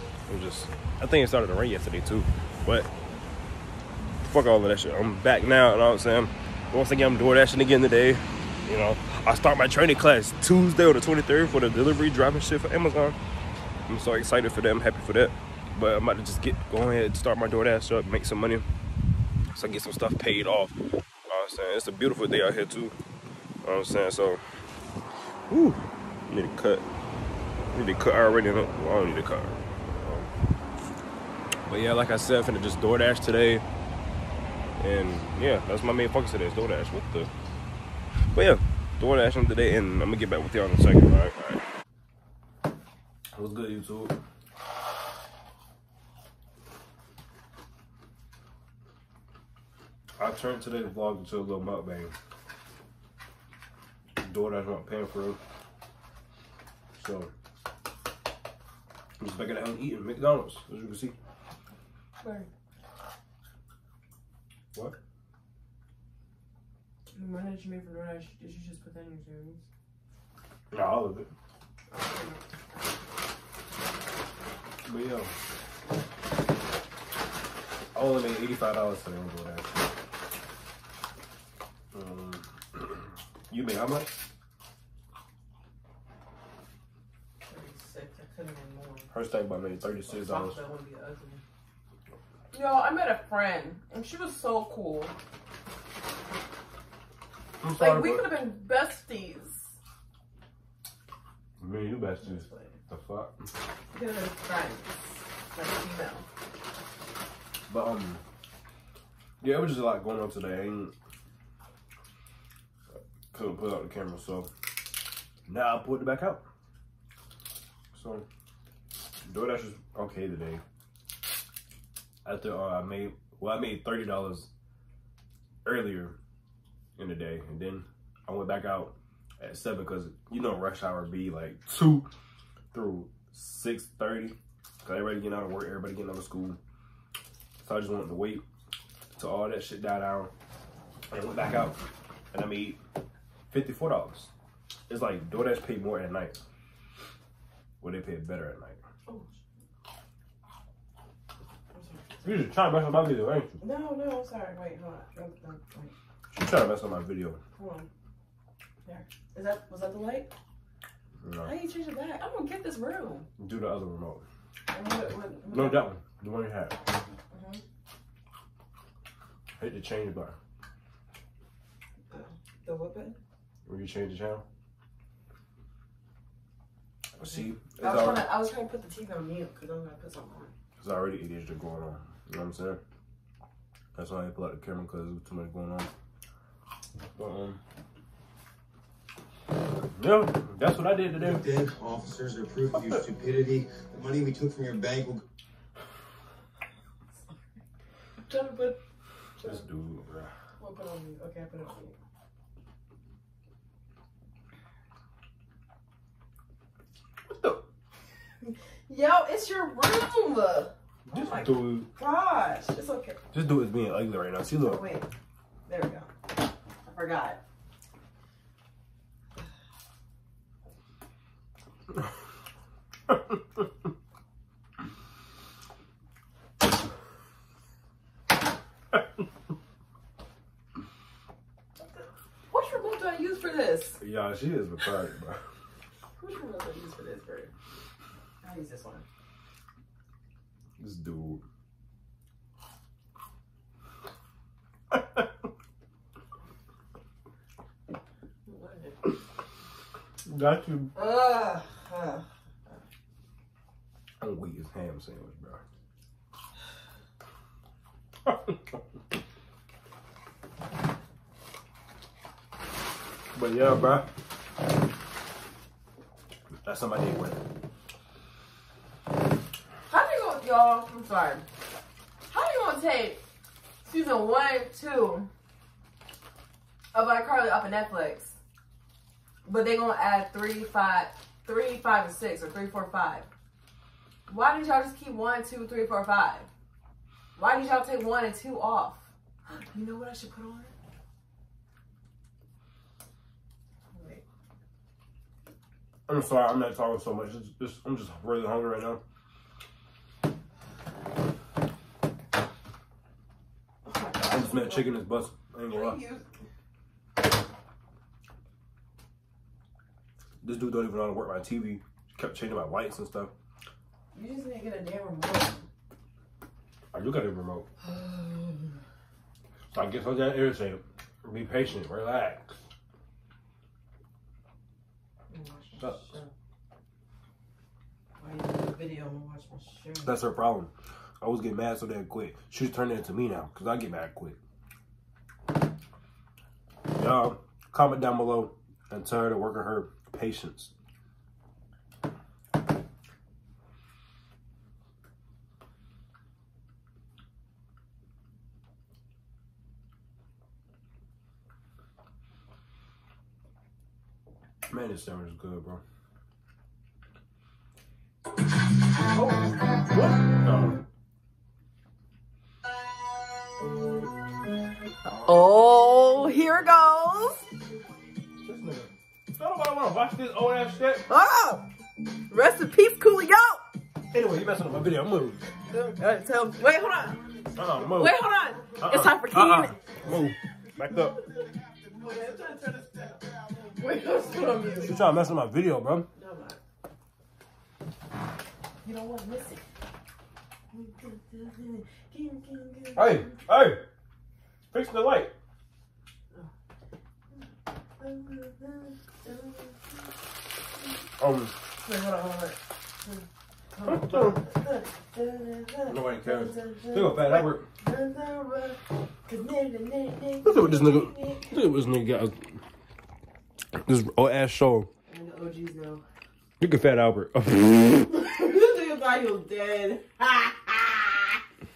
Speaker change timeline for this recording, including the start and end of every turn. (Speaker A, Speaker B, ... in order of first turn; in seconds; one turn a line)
Speaker A: 0.3-2.9
Speaker A: 4.2-13.2
Speaker A: 13.9-18.6
Speaker A: 19.5-20.8
Speaker A: 21.3-22.9
Speaker A: 23.6-24.4
Speaker A: 25.5-26.8
Speaker A: 27.7-30.3
Speaker A: 31.6-33.6
Speaker A: 34.8-37.3
Speaker A: 38.3-41.6
Speaker A: 43.3-44.2
Speaker A: 50.2-52.1
Speaker A: 54.2-55.4
Speaker A: 57.0-57.3
Speaker A: 59.2-61.1
Speaker B: 62.2-62.5
Speaker B: 67.1-69.6
Speaker A: 70.7-71.3
Speaker B: 71.9-72.4
Speaker A: 74.8-75.3
Speaker A: 77.9-79.9
Speaker A: 81.9-84.2
Speaker B: 87.5-89.1
Speaker A: 89.1-90.5
Speaker B: 90.1-91.4
Speaker B: 92.5-95.1
Speaker A: 97.6-98.3
Speaker B: 97.7-99.7
Speaker A: 101.6-103.5
Speaker B: 102.2-102.8
Speaker B: 103.9-106.3
Speaker A: 107.7-108.2
Speaker A: 109.4-110.9
Speaker A: 113.3-114.5
Speaker A: 115.5-116.4
Speaker A: 117.9-118.2
Speaker A: 119.3-120.6
Speaker A: 122.2-124.5
Speaker A: 125.6-126.2
Speaker A: 127.0-132.1
Speaker A: 132.7-136.6
Speaker A: 137.6-138.4
Speaker A: 139.2-140.3
Speaker A: 141.1-141.8
Speaker A: 142.3-142.8
Speaker A: 143.5-144.3
Speaker A: 144.9-146.4
Speaker A: 147.8-148.8
Speaker B: 149.1-149.4
Speaker B: 151.7-152.4
Speaker A: 152.2-153.6
Speaker B: 153.6-155.9
Speaker A: 156.3-157.4
Speaker B: 157.5-157.9
Speaker B: 158.8-160.3
Speaker A: 161.2-161.5
Speaker B: 161.4-163.2
Speaker A: 163.4-164.2
Speaker B: 164.7-165.9
Speaker A: 165.5-166.8
Speaker B: 167.3-167.6
Speaker A: 169.6-170.3
Speaker B: 172.1-173.2
Speaker A: 173.7-174.4
Speaker A: 177.2-178.3
Speaker B: 177.8-180.5
Speaker A: 180.8-182.8
Speaker A: 183.9-185.9
Speaker A: 187.2-187.6
Speaker A: 189.9-191.4
Speaker C: 191.2-195.2
Speaker A: 192.7-193.0
Speaker B: 198.3-198.8
Speaker A: 199.4-200.3
Speaker B: 200.6-201.9
Speaker A: 207.3-207.6
Speaker B: 208.4-213.2
Speaker A: 211.1-211.9
Speaker A: 213.3-214.8
Speaker B: 214.6-215.1
Speaker B: 215.7-216.1
Speaker B: 216.8-217.4
Speaker B: 231.8-234.0
Speaker A: 234.0-235.4
Speaker B: 236.2-237.5
Speaker B: 238.4-239.0
Speaker A: 240.8-241.4
Speaker A: 244.9-245.2
Speaker B: 248.4-249.1
Speaker A: 250.2-250.9
Speaker B: 250.9-252.2
Speaker A: 254.2-255.6
Speaker A: 258.2-258.6
Speaker A: 263.3-264.1
Speaker A: 266.6-267.4
Speaker B: 269.9-271.4
Speaker B: 272.3-273.2
Speaker B: 273.8-275.3
Speaker B: 276.9-278.4
Speaker B: 279.4-283.3
Speaker B: 284.3-286.5
Speaker B: 287.4-290.7
Speaker B: 293.9-294.2
Speaker A: 296.1-299.0
Speaker B: 303.9-305.0
Speaker A: 304.3-306.0
Speaker B: 305.7-306.3
Speaker A: 310.4-313.3
Speaker B: 314.1-315.7
Speaker A: 316.9-317.6
Speaker B: 317.8-318.8
Speaker A: 319.7-322.5
Speaker B: 325.3-326.3
Speaker B: 328.2-330.2
Speaker A: 330.0-334.4
Speaker A: 336.9-340.7
Speaker A: 354.7-355.8
Speaker B: 359.1-359.6
Speaker A: 359.9-360.8
Speaker B: 365.0-367.4
Speaker A: 368.4-371.1
Speaker B: 371.1-371.6
Speaker B: 372.3-373.6
Speaker A: 374.1-375.4
Speaker B: 375.7-377.3
Speaker A: 377.5-378.2
Speaker B: 377.9-379.9
Speaker A: 378.8-381.2
Speaker B: 381.9-385.0
Speaker A: 384.8-386.1
Speaker B: 386.1-386.6
Speaker B: 388.8-389.6
Speaker B: 390.7-393.4
Speaker A: 392.9-393.8
Speaker A: 394.7-395.3
Speaker B: 398.0-400.1
Speaker A: 401.2-401.5
Speaker B: 401.8-403.2
Speaker B: 403.7-411.5
Speaker A: 403.9-404.4
Speaker A: 405.9-407.6
Speaker A: 410.4-412.4
Speaker A: 413.8-414.9
Speaker B: 415.1-416.0
Speaker A: 416.6-418.1
Speaker B: 418.0-421.4